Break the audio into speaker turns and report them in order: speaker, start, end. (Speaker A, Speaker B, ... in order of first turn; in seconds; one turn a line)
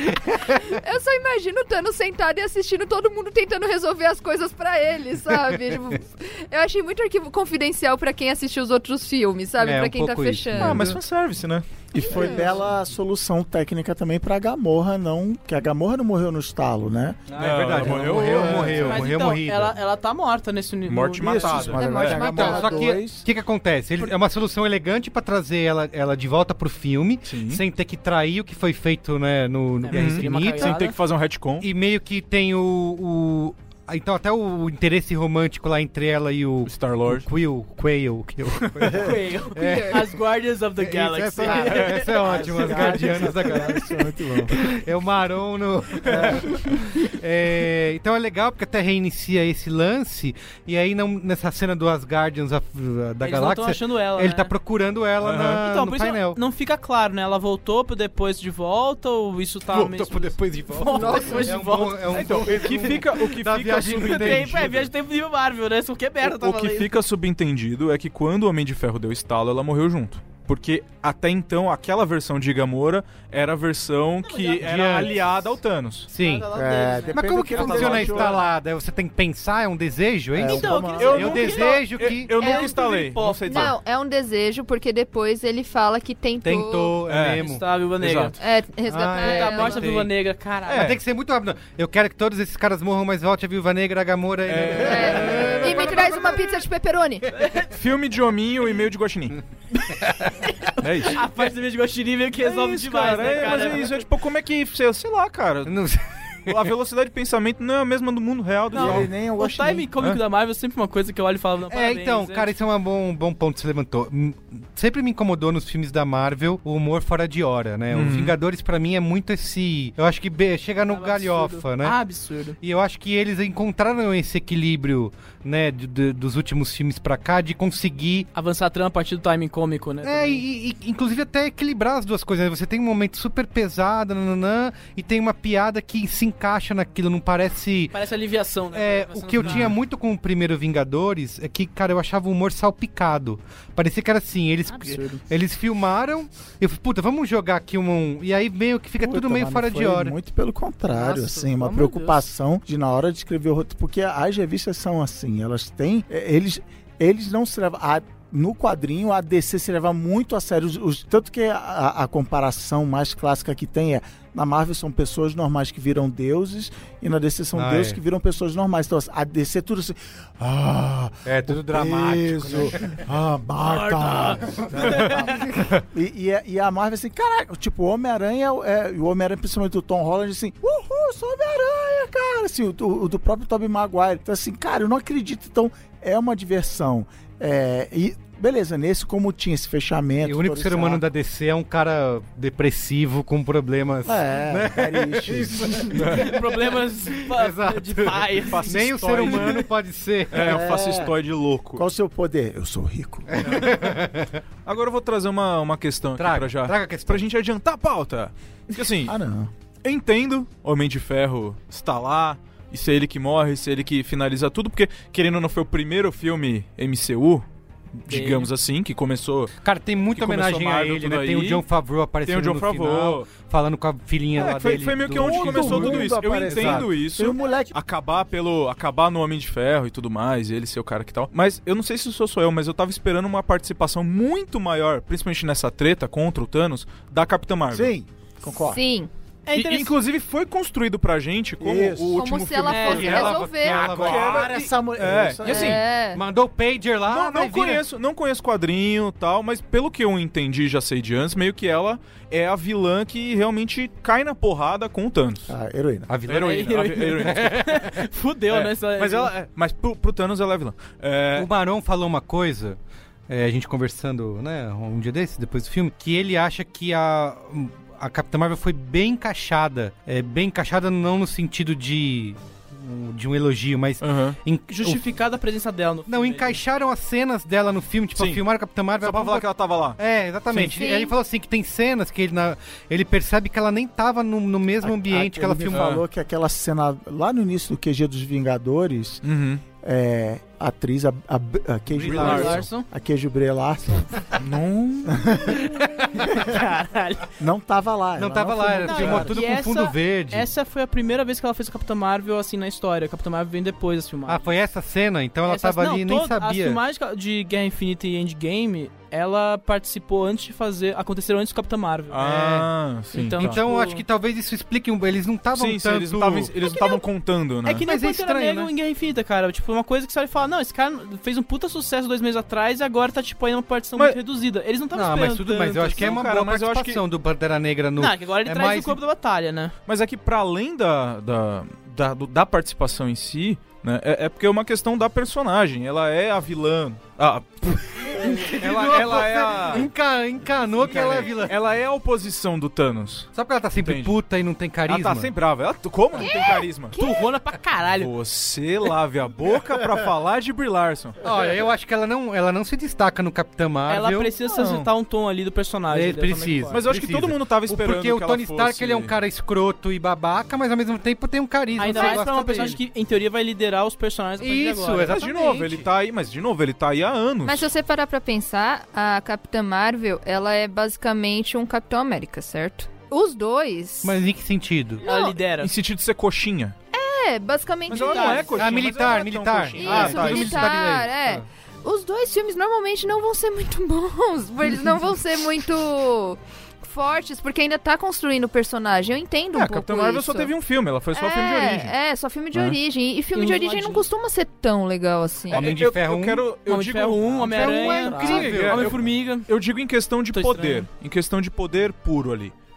Speaker A: 0.4-10.9
Speaker B: 9.6-11.0
Speaker C: 10.6-11.7
Speaker D: 11.9-18.6
Speaker A: 12.0-12.6
Speaker B: 17.3-19.8
Speaker C: 17.4-19.0
Speaker E: 18.1-21.8
Speaker C: 20.9-22.5
Speaker D: 21.2-23.3
Speaker A: 21.8-22.8
Speaker B: 21.9-30.9
Speaker C: 27.2-27.6
Speaker E: 29.8-31.0
Speaker C: 29.9-31.7
Speaker B: 31.6-40.1
Speaker C: 36.6-37.3
Speaker E: 38.9-43.0
Speaker A: 39.6-40.0
Speaker B: 40.8-56.4
Speaker D: 41.4-44.6
Speaker D: 46.1-46.6
Speaker E: 53.2-54.5
Speaker C: 55.2-55.6
Speaker E: 55.6-62.7
Speaker B: 59.7-64.9
Speaker A: 60.9-61.5
Speaker C: 62.1-64.8
Speaker E: 63.9-66.9
Speaker C: 66.2-76.1
Speaker E: 74.2-75.6
Speaker B: 74.6-75.2
Speaker B: 76.1-76.5
Speaker E: 76.1-78.3
Speaker D: 76.5-78.4
Speaker B: 77.1-82.3
Speaker C: 77.6-78.4
Speaker D: 80.3-81.4
Speaker E: 80.4-83.7
Speaker C: 81.0-83.8
Speaker A: 82.4-82.7
Speaker A: 83.5-87.0
Speaker B: 86.4-87.6
Speaker C: 87.1-87.4
Speaker E: 87.4-88.4
Speaker C: 88.0-88.4
Speaker A: 88.4-89.8
Speaker B: 88.9-90.1
Speaker E: 89.2-91.0
Speaker C: 90.7-91.0
Speaker B: 90.7-96.5
Speaker C: 94.5-96.2
Speaker A: 94.8-97.3
Speaker E: 97.3-97.7
Speaker C: 97.6-99.4
Speaker E: 99.8-104.0
Speaker C: 100.8-101.5
Speaker C: 102.4-105.8
Speaker B: 105.7-106.6
Speaker C: 106.5-109.1
Speaker D: 108.7-109.9
Speaker E: 108.7-112.5
Speaker B: 111.7-122.0
Speaker C: 117.9-118.3
Speaker E: 120.9-122.6
Speaker B: 122.6-128.3
Speaker E: 128.3-130.4
Speaker B: 130.0-137.9
Speaker E: 137.9-139.8
Speaker B: 138.7-150.2
Speaker C: 139.4-139.7
Speaker E: 144.7-145.2
Speaker D: 149.0-191.0
Speaker E: 150.9-152.2
Speaker B: 167.6-168.0
Speaker B: 171.3-172.9
Speaker E: 173.6-175.2
Speaker B: 190.2-196.0
Speaker D: 194.1-196.0
Speaker C: 196.0-196.3
Speaker E: 196.0-199.5
Speaker B: 197.3-200.6
Speaker C: 198.5-199.7
Speaker C: 200.3-201.8
Speaker D: 200.4-201.1
Speaker D: 201.8-203.4
Speaker B: 203.4-204.3
Speaker C: 203.4-203.8
Speaker C: 204.7-209.2
Speaker B: 206.2-207.2
Speaker D: 209.1-209.5
Speaker C: 209.8-219.5
Speaker E: 218.1-218.5
Speaker B: 219.6-226.9
Speaker C: 220.1-221.7
Speaker C: 222.3-223.3
Speaker C: 224.4-237.9
Speaker D: 225.1-227.8
Speaker D: 237.7-238.8
Speaker A: 238.7-239.1
Speaker E: 239.5-240.0
Speaker C: 239.5-245.8
Speaker D: 241.6-242.3
Speaker A: 242.2-244.0
Speaker E: 242.7-243.3
Speaker B: 242.9-244.5
Speaker D: 243.7-245.8
Speaker A: 245.4-246.2
Speaker B: 246.1-247.8
Speaker C: 247.1-255.5
Speaker D: 255.5-256.1
Speaker B: 256.1-257.8
Speaker C: 256.3-257.5
Speaker E: 256.3-259.3
Speaker C: 258.5-261.5
Speaker B: 261.4-262.8
Speaker B: 263.3-275.1
Speaker C: 274.0-274.4
Speaker E: 274.7-276.6
Speaker B: 276.1-279.5
Speaker C: 278.1-278.4
Speaker C: 279.0-280.0
Speaker B: 280.0-285.9
Speaker A: 280.6-281.1
Speaker D: 284.8-294.3
Speaker C: 285.7-286.0
Speaker C: 289.2-289.6
Speaker B: 291.9-292.7
Speaker C: 292.0-292.6
Speaker E: 292.2-292.9
Speaker C: 294.4-295.3
Speaker D: 295.1-295.6
Speaker E: 296.2-297.3
Speaker D: 297.4-299.3
Speaker B: 298.2-300.5
Speaker E: 298.8-304.4
Speaker B: 304.3-306.8
Speaker E: 305.5-312.2
Speaker C: 312.1-313.6
Speaker B: 312.2-312.7
Speaker E: 313.1-314.0
Speaker B: 313.4-316.6
Speaker C: 315.5-317.9
Speaker A: 316.7-317.0
Speaker E: 317.6-326.3
Speaker B: 317.8-318.7
Speaker B: 324.9-329.0
Speaker C: 325.9-327.0
Speaker E: 328.0-329.8
Speaker C: 329.9-339.9
Speaker B: 338.2-341.6
Speaker C: 340.8-344.2
Speaker B: 343.4-345.3
Speaker C: 344.9-347.0
Speaker A: 346.2-347.3
Speaker E: 346.9-348.1
Speaker C: 348.0-351.2
Speaker B: 351.2-354.3
Speaker E: 353.9-356.8
Speaker C: 354.4-354.9
Speaker B: 355.9-362.8
Speaker C: 356.7-359.1
Speaker E: 361.8-365.2
Speaker B: 364.4-365.9
Speaker C: 365.0-367.7
Speaker A: 367.4-374.2
Speaker B: 374.0-375.0
Speaker E: 375.0-375.7
Speaker A: 375.0-375.4
Speaker C: 375.6-376.8
Speaker A: 376.9-378.7
Speaker C: 377.9-380.9
Speaker E: 377.9-378.6
Speaker B: 378.6-381.4
Speaker A: 379.8-390.6
Speaker C: 389.5-391.9
Speaker A: 391.1-395.7
Speaker E: 393.3-394.0
Speaker B: 395.5-396.5
Speaker C: 395.5-402.6
Speaker E: 396.7-399.5
Speaker B: 397.4-399.0
Speaker D: 397.9-398.7
Speaker E: 400.3-400.9